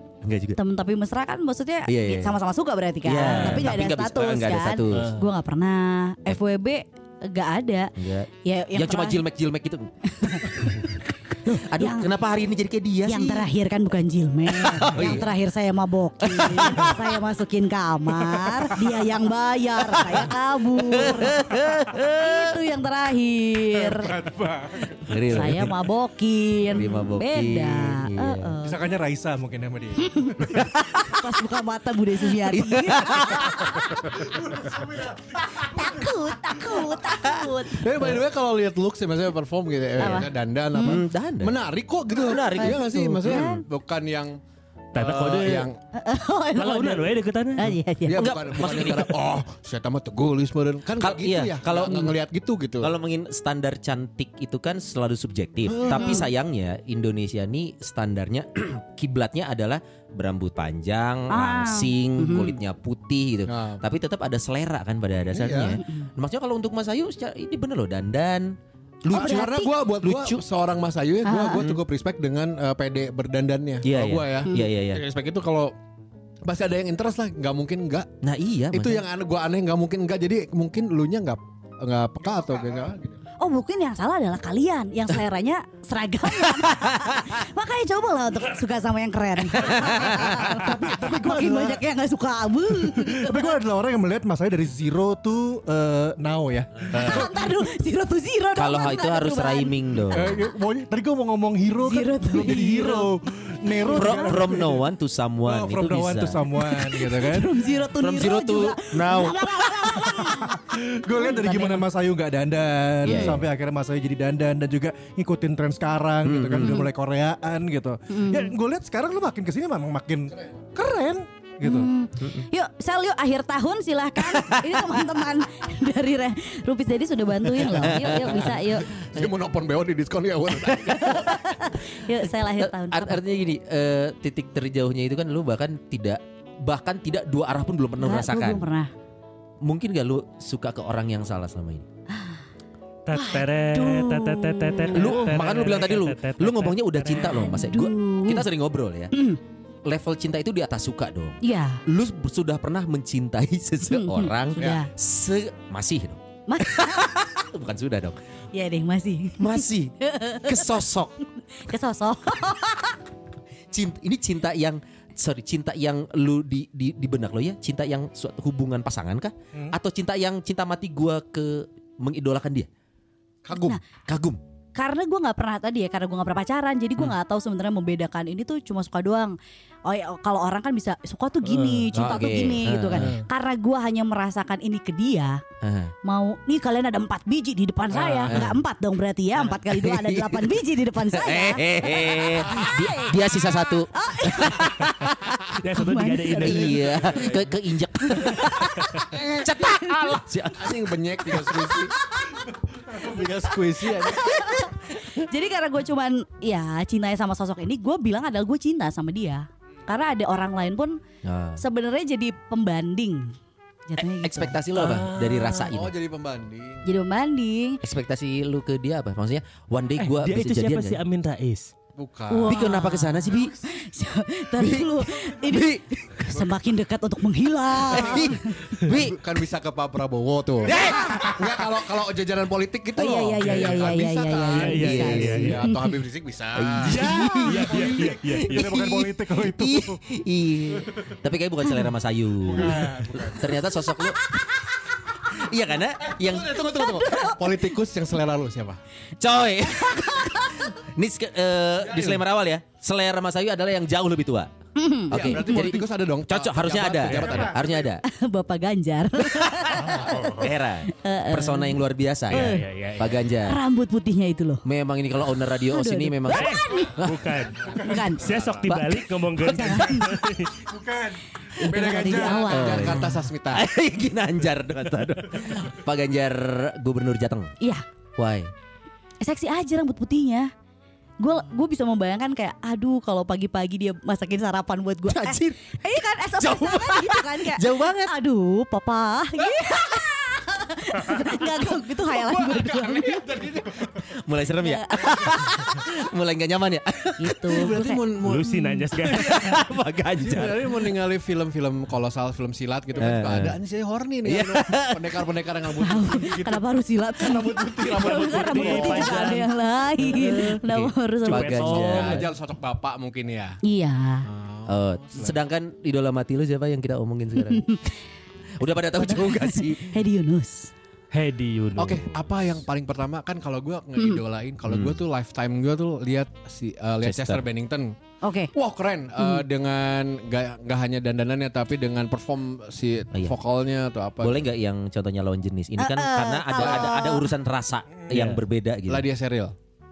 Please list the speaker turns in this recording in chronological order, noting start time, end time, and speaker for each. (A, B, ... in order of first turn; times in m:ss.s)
0:00.2-0:00.6 A
0:00.6-0:09.2 B
0:01.9-0:02.4 A
0:03.0-0:05.1 A
0:03.2-0:03.7 C
0:04.9-0:05.2 C
0:08.0-0:10.8 A
0:10.1-0:12.1 B
0:11.4-0:13.5 A
0:13.1-0:21.4 B
0:14.5-0:15.3 A
0:16.2-0:17.1 A
0:18.1-0:18.7 A
0:19.9-0:22.6 A
0:22.2-0:24.1 B
0:23.8-0:25.1 D
0:25.0-0:25.7 A
0:25.2-0:28.8 B
0:26.7-0:28.5 A
0:28.6-0:30.7 D
0:30.0-0:34.0 B
0:32.4-0:33.9 A
0:34.1-0:36.2 D
0:35.5-0:38.2 B
0:37.0-0:37.5 A
0:37.7-0:44.4 E
0:40.0-0:41.0 B
0:40.8-0:41.6 A
0:42.1-0:43.5 A
0:42.5-0:43.6 B
0:44.9-0:45.7 C
0:44.9-0:45.8 E
0:45.9-0:48.6 B
0:46.5-0:47.7 C
0:48.1-0:52.9 E
0:48.1-0:49.2 A
0:51.0-0:52.1 A
0:52.8-1:10.4 A
0:55.7-0:56.2 E
0:55.8-0:56.2 B
1:01.3-1:02.6 B
1:03.5-1:03.8 E
1:05.3-1:05.8 E
1:05.8-1:06.1 B
1:09.1-1:09.7 B
1:09.1-1:15.7 E
1:11.2-1:11.7 B
1:11.5-1:11.8 A
1:13.8-1:15.0 A
1:16.4-1:18.1 E
1:18.2-1:19.1 A
1:18.7-1:23.2 E
1:23.4-1:33.6 B
1:26.5-1:27.3 A
1:29.5-1:30.4 A
1:30.4-1:31.8 D
1:32.8-1:37.4 D
1:36.9-1:40.2 B
1:38.6-1:40.4 A
1:40.1-1:44.8 D
1:41.8-1:43.1 B
1:43.7-1:44.4 B
1:43.9-1:46.5 A
1:45.4-1:47.6 D
1:46.6-1:51.9 B
1:48.0-1:49.5 A
1:50.2-2:01.9 D
1:53.0-1:53.4 A
1:53.1-1:53.4 B
1:56.2-1:56.8 A
1:56.6-1:56.9 B
1:58.1-1:58.5 B
2:01.6-2:09.0 B
2:02.2-2:02.5 A
2:04.2-2:04.9 A
2:07.6-2:09.3 A
2:08.5-2:11.4 E
2:11.0-2:13.2 B
2:12.6-2:18.6 A
2:18.0-2:18.9 B
2:19.6-2:21.9 A
2:22.1-2:22.4 B
2:23.1-2:27.4 C
2:23.1-2:25.2 B
2:24.9-2:29.1 A
2:27.1-2:28.4 B
2:29.1-2:29.4 B
2:29.8-2:38.2 A
2:31.4-2:31.8 B
2:33.9-2:34.9 B
2:36.5-2:37.3 B
2:38.5-2:40.8 B
2:39.4-2:41.2 A
2:41.5-2:43.0 B
2:43.7-2:52.7 A
2:53.5-2:54.4 A
2:53.5-2:53.8 B
2:54.7-3:05.4 B
3:01.4-3:02.1 C
3:01.9-3:03.1 A
3:05.6-3:05.9 A
3:06.0-3:15.0 B
3:07.9-3:08.4 C
3:08.3-3:08.6 A
3:09.4-3:10.5 A
3:11.1-3:15.4 A
3:15.5-3:16.9 C
3:15.7-3:17.3 B
3:16.3-3:21.0 A
3:18.1-3:19.0 B
3:19.1-3:22.0 E
3:22.9-3:24.6 E
3:23.8-3:31.0 B
3:31.2-3:31.6 A
3:31.6-3:33.4 B
3:33.9-3:34.6 B
3:34.0-3:35.9 A
3:34.7-3:35.7 C
3:35.6-3:36.9 E
3:36.8-3:37.8 B
3:37.8-3:41.0 A
3:40.0-3:41.7 C
3:42.0-3:42.6 E
3:42.3-3:48.6 B
3:42.4-3:43.6 A
3:44.6-3:46.0 A
3:47.9-3:49.2 A
3:48.9-3:57.1 E
3:50.6-3:51.4 A
3:53.0-3:56.0 B
3:54.5-3:55.6 C
3:54.6-3:55.5 A
3:56.5-4:04.2 A
3:56.9-3:58.8 C
3:56.9-4:00.0 D
4:02.5-4:03.4 D
4:05.2-4:06.8 A
4:06.2-4:08.8 E
4:06.7-4:07.7 B
4:09.2-4:14.5 A
4:09.9-4:10.6 B
4:11.8-4:12.2 E
4:14.8-4:15.8 B
4:15.1-4:18.0 A
4:15.1-4:17.9 E
4:18.0-4:22.6 B
4:19.4-4:23.6 A
4:19.8-4:20.5 C
4:22.3-4:23.2 C
4:23.4-4:24.6 B
4:24.6-4:27.3 A
4:25.6-4:27.0 B
4:26.3-4:30.6 C
4:27.6-4:28.1 D
4:27.8-4:28.3 B
4:28.2-4:28.6 E
4:29.4-4:30.1 B
4:30.6-4:32.5 D
4:31.6-4:33.2 B
4:31.6-4:33.7 E
4:32.5-4:37.5 A
4:38.2-4:38.5 A
4:39.2-4:40.5 B
4:41.2-4:53.3 B
4:45.1-4:45.8 A
4:46.4-4:48.2 A
4:52.1-4:53.9 E
4:54.0-4:57.9 A
4:54.6-4:55.3 B
4:57.2-4:58.9 B
4:57.5-4:58.4 E
4:58.2-4:59.6 C
4:59.0-5:00.8 A
5:00.2-5:06.6 E
5:03.0-5:03.6 A
5:04.2-5:05.1 A
5:05.8-5:11.6 B
5:07.2-5:09.3 E
5:08.0-5:10.6 C
5:10.4-5:12.3 A
5:11.2-5:12.3 C
5:11.6-5:13.6 E
5:13.6-5:14.2 B
5:14.2-5:15.4 E
5:14.7-5:17.8 A
5:17.4-5:17.8 B
5:18.6-5:20.0 A
5:19.0-5:20.7 B
5:21.1-5:22.2 C
5:21.8-5:27.9 E
5:24.7-5:25.0 A
5:27.0-5:27.4 A
5:28.2-5:28.5 B
5:28.5-5:34.4 E
5:29.2-5:29.4 B
5:34.2-5:39.1 A
5:35.8-5:37.3 B
5:36.6-5:36.9 E
5:38.1-5:38.4 C
5:38.9-5:39.5 E